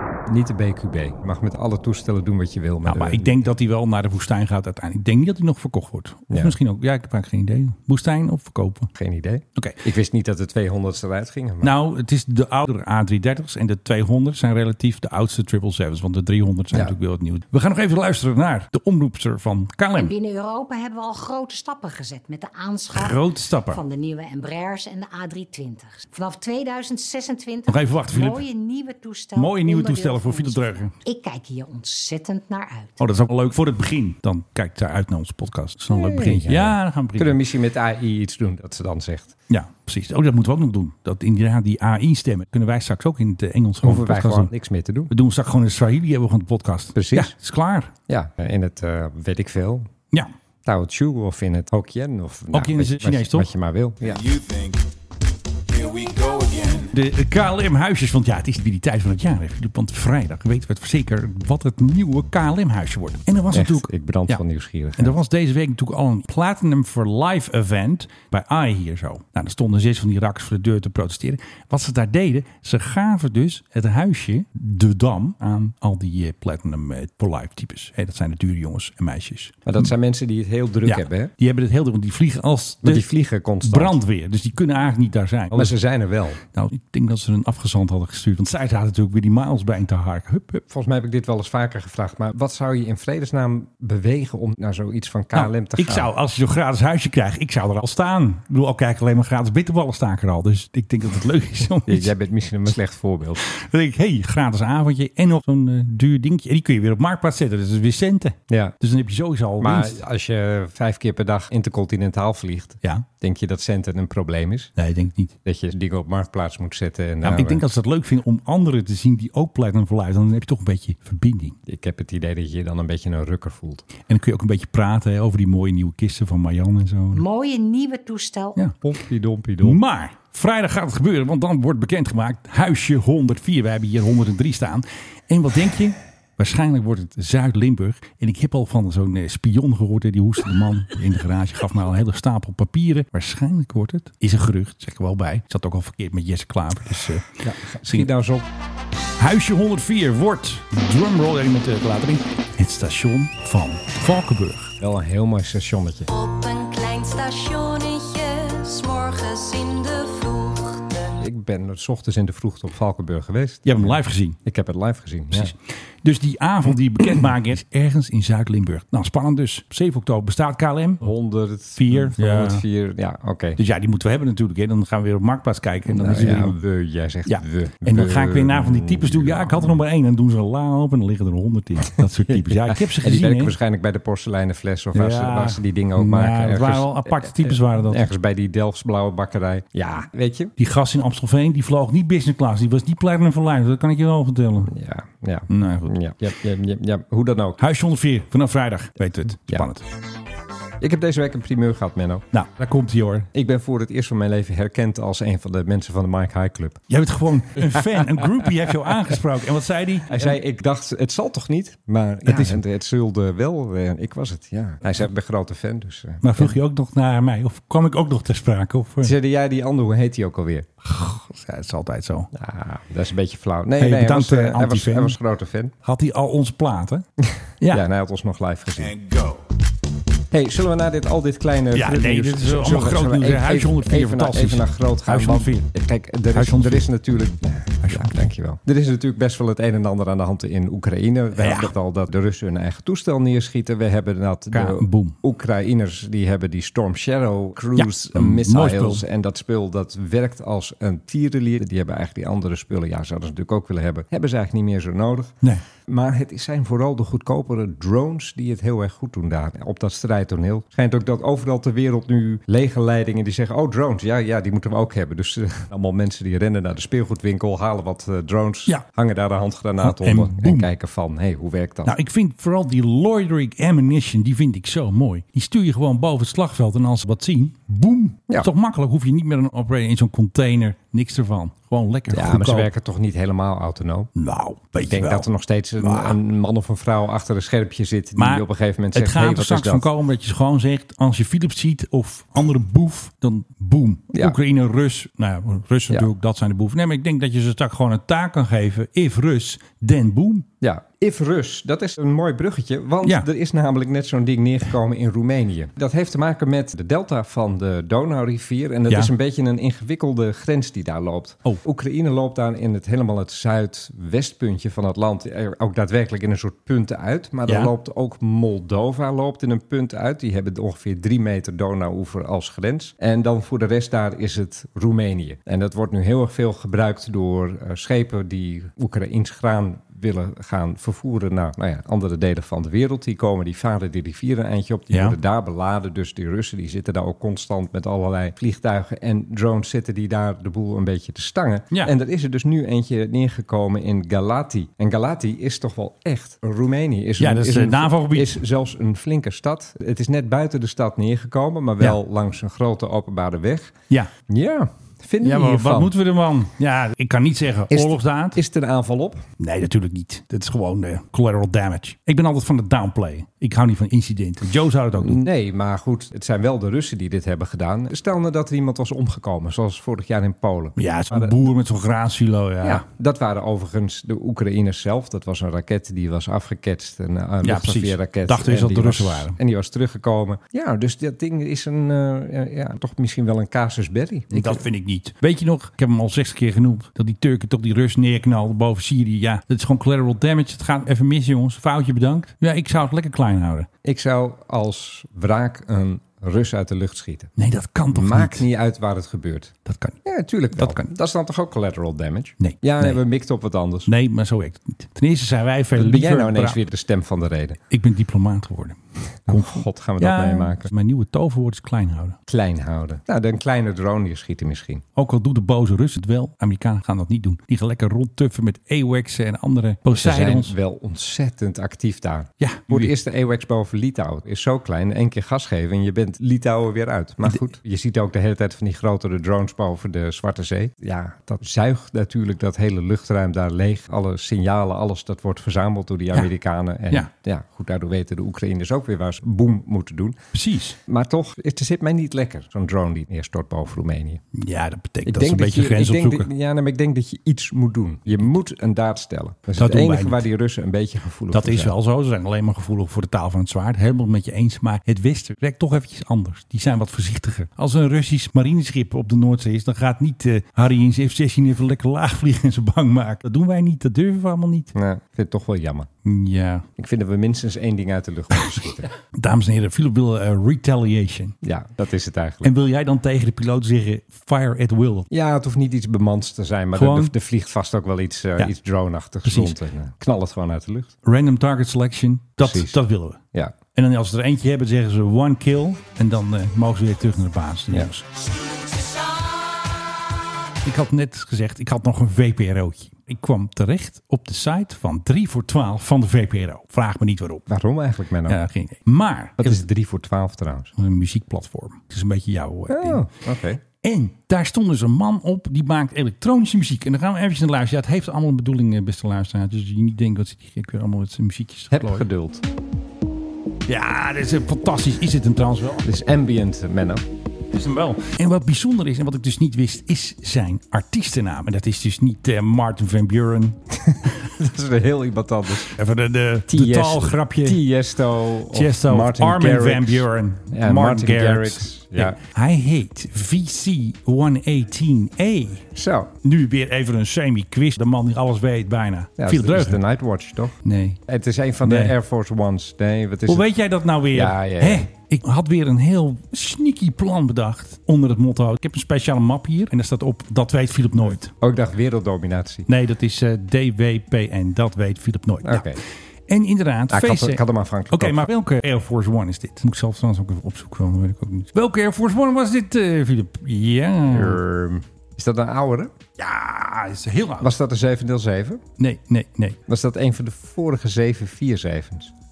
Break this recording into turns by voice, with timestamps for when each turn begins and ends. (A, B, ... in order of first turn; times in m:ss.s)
0:00.3-0:03.3 A
0:02.8-0:08.9 B
0:08.9-0:11.7 A
0:11.6-0:20.1 B
0:20.0-0:23.2 C
0:22.9-0:23.8 B
0:23.7-0:33.0 C
0:27.7-0:28.4 B
0:29.4-0:30.9 B
0:33.0-0:37.4 B
0:35.9-0:39.3 A
0:39.5-0:44.5 B
0:43.8-0:45.1 A
0:45.1-0:47.9 B
0:46.9-0:47.3 A
0:48.1-0:49.9 A
0:50.6-0:54.2 A
0:52.5-0:53.5 B
0:54.0-0:54.8 D
0:55.7-0:56.9 D
0:56.9-1:04.4 B
1:03.5-1:05.2 A
1:05.0-1:19.6 B
1:19.6-1:21.3 A
1:20.8-1:23.1 B
1:22.8-1:24.0 A
1:23.6-1:25.8 B
1:25.5-1:26.4 A
1:26.5-1:30.6 B
1:30.7-1:36.1 A
1:35.3-1:42.1 B
1:41.9-1:43.4 A
1:43.5-1:50.0 B
1:48.5-1:48.8 A
1:49.6-1:54.7 A
1:54.8-1:55.3 B
1:55.4-1:57.6 A
1:57.2-2:01.6 B
2:01.6-2:03.9 A
2:04.0-2:07.2 B
2:07.1-2:08.6 C
2:08.8-2:09.8 A
2:09.6-2:28.1 B
2:27.4-2:28.4 A
2:29.2-2:34.7 B
2:34.8-2:36.1 A
2:36.1-2:41.1 E
2:41.2-2:45.5 A
2:43.6-2:44.4 B
2:45.3-2:51.0 B
2:51.0-2:53.6 A
2:51.8-2:52.6 B
2:53.6-2:56.6 B
2:55.9-2:59.8 A
2:57.2-3:03.5 B
3:02.3-3:10.5 A
3:04.9-3:08.1 B
3:10.6-3:14.7 B
3:14.7-3:17.6 A
3:15.5-3:16.0 B
3:17.6-3:19.8 B
3:20.8-3:22.2 A
3:22.3-3:23.3 B
3:23.3-3:26.8 A
3:26.9-3:30.4 B
3:27.6-3:28.9 A
3:30.1-3:36.6 A
3:32.3-3:32.6 B
3:36.2-3:39.1 B
3:39.0-3:40.7 A
3:40.8-3:42.3 B
3:42.3-3:45.7 A
3:43.8-3:45.2 B
3:45.8-3:47.0 B
3:47.2-3:48.9 A
3:48.8-3:49.4 D
3:50.3-4:15.3 A
3:51.7-3:55.7 B
3:56.3-3:56.9 B
3:57.8-3:58.2 B
4:01.4-4:01.7 B
4:04.5-4:05.1 B
4:07.8-4:09.0 B
4:15.9-4:31.9 A
4:29.8-4:30.7 B
4:31.8-4:42.7 B
4:42.1-4:44.1 A
4:44.2-4:45.3 B
4:44.8-4:49.9 A
4:45.8-4:46.2 B
4:48.2-5:00.4 B
5:00.6-5:53.7 A
5:17.5-5:17.7 B
5:34.9-5:35.2 B
5:47.2-5:48.4 B
5:54.3-5:55.9 A
5:55.2-5:58.4 B
5:57.7-5:59.2 A
5:59.4-6:05.2 B
6:05.0-6:11.4 A
6:10.8-6:12.8 B
6:12.6-6:24.6 A
6:17.4-6:19.3 B
6:24.3-6:33.7 B
6:33.8-6:37.3 A
6:37.4-6:38.4 B
6:37.9-6:43.9 A
6:39.6-6:40.0 B
6:40.6-6:40.9 B
6:42.4-6:43.0 B
6:43.9-6:46.6 B
6:45.7-6:47.6 A
6:47.7-6:52.2 B
6:49.3-6:50.7 A
6:52.3-6:54.8 A
6:55.0-7:00.5 B
6:59.9-7:20.2 A
7:02.4-7:02.9 B
7:20.3-7:20.8 B
7:20.8-7:24.2 A
7:24.3-7:26.3 B
7:25.0-7:31.7 A
7:29.6-7:30.2 B
7:31.3-7:44.7 B
7:44.7-7:45.9 A
7:46.0-7:46.6 B
7:46.8-7:48.9 A
7:49.1-7:51.3 B
7:51.4-7:52.5 A
7:52.4-7:55.1 B
7:55.1-8:00.9 A
7:56.7-7:57.1 B
7:59.2-7:59.6 B
8:01.0-8:03.2 B
8:02.4-8:02.8 A
8:03.7-8:08.0 B
8:10.6-8:17.4 B
8:17.5-8:18.4 A
8:18.3-8:19.6 B
8:19.4-8:20.7 A
8:20.8-8:23.0 B
8:22.7-8:23.6 A
8:23.8-8:32.0 B
8:31.7-8:32.4 A
8:33.7-8:35.8 B
8:35.8-8:37.0 A
8:37.5-8:43.6 B
8:43.8-8:45.7 A
8:45.7-8:47.6 B
8:46.5-8:52.2 A
8:48.5-8:55.7 B
8:55.7-8:56.1 A
8:56.2-8:59.8 B
8:59.2-9:00.5 A
9:00.6-9:01.0 B
9:01.1-9:03.5 A
9:01.6-9:01.9 B
9:03.3-9:11.3 B
9:04.1-9:04.9 A
9:11.4-9:12.7 A
9:12.7-9:24.4 B
9:15.4-9:15.8 A
9:16.9-9:18.3 A
9:24.1-9:25.9 A
9:26.2-9:27.5 B
9:27.4-9:28.6 A
9:28.8-9:29.6 B
9:29.7-9:32.1 A